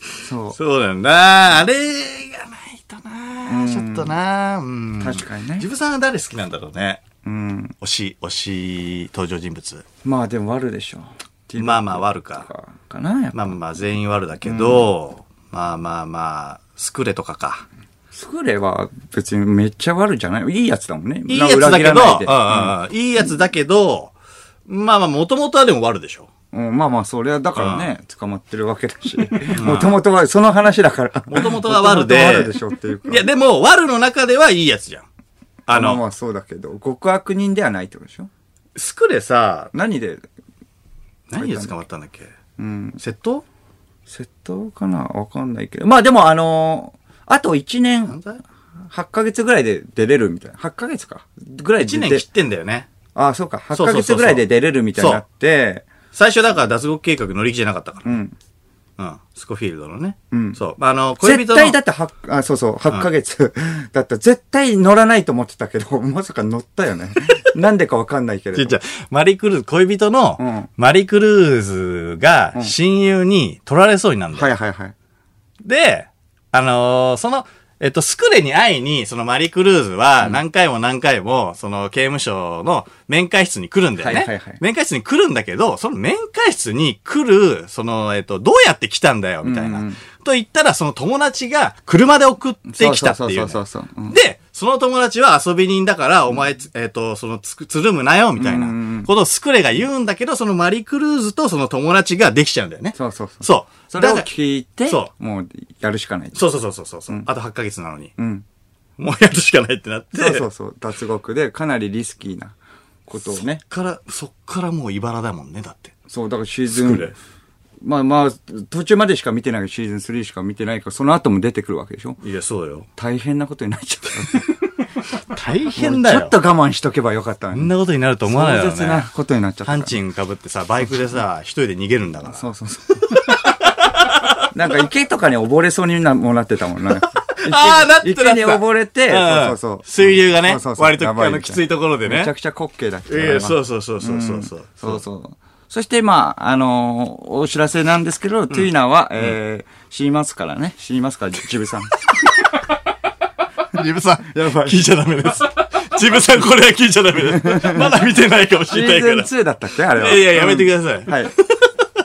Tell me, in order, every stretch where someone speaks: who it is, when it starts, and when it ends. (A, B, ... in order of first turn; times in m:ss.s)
0:00.2-0:00.6 A
0:00.5-0:07.0 B
0:03.5-0:04.1 A
0:05.0-0:05.7 A
0:07.2-0:07.8 A
0:07.8-0:09.8 B
0:10.0-0:13.6 A
0:11.6-0:12.5 B
0:13.3-0:17.7 B
0:14.4-0:14.9 A
0:18.1-0:22.7 A
0:21.3-0:24.1 B
0:24.7-0:26.3 B
0:26.5-0:33.3 A
0:27.6-0:27.9 B
0:29.4-0:30.0 B
0:31.3-0:32.6 B
0:33.1-0:35.1 B
0:35.7-0:36.0 B
0:35.7-0:38.3 A
0:38.8-0:39.7 B
0:39.7-0:40.2 A
0:41.3-0:42.3 B
0:41.4-0:41.7 A
0:42.6-0:43.0 A
0:43.0-0:43.4 B
0:44.1-0:48.2 A
0:48.1-0:48.4 B
0:48.9-0:52.2 A
0:51.8-0:52.9 B
0:53.2-0:55.9 A
0:53.7-0:55.2 B
0:56.1-0:58.2 B
0:58.0-0:58.4 A
0:59.0-1:01.8 B
1:00.3-1:00.6 A
1:01.2-1:08.8 A
1:08.5-1:14.5 B
1:10.4-1:10.7 A
1:14.3-1:15.0 A
1:15.6-1:44.3 B
1:24.0-1:24.6 A
1:29.4-1:30.0 A
1:32.7-1:34.2 A
1:38.4-1:39.1 A
1:43.0-1:46.4 A
1:46.3-1:48.1 B
1:48.2-1:48.4 A
1:49.0-1:50.5 B
1:50.2-1:52.6 A
1:53.1-1:53.6 A
1:53.2-1:55.9 B
1:56.1-1:57.1 A
1:56.7-1:57.2 B
1:57.8-2:02.2 A
2:02.2-2:02.9 B
2:03.0-2:04.5 A
2:05.3-2:06.3 B
2:05.8-2:07.7 A
2:07.5-2:09.1 B
2:08.3-2:09.9 A
2:09.6-2:12.5 B
2:12.3-2:13.2 A
2:13.1-2:14.5 B
2:14.5-2:31.9 A
2:17.0-2:22.3 B
2:23.1-2:25.0 B
2:32.2-2:32.5 B
2:33.7-2:39.3 B
2:34.2-2:34.9 A
2:37.3-2:37.9 A
2:38.7-2:41.3 A
2:39.9-2:41.8 B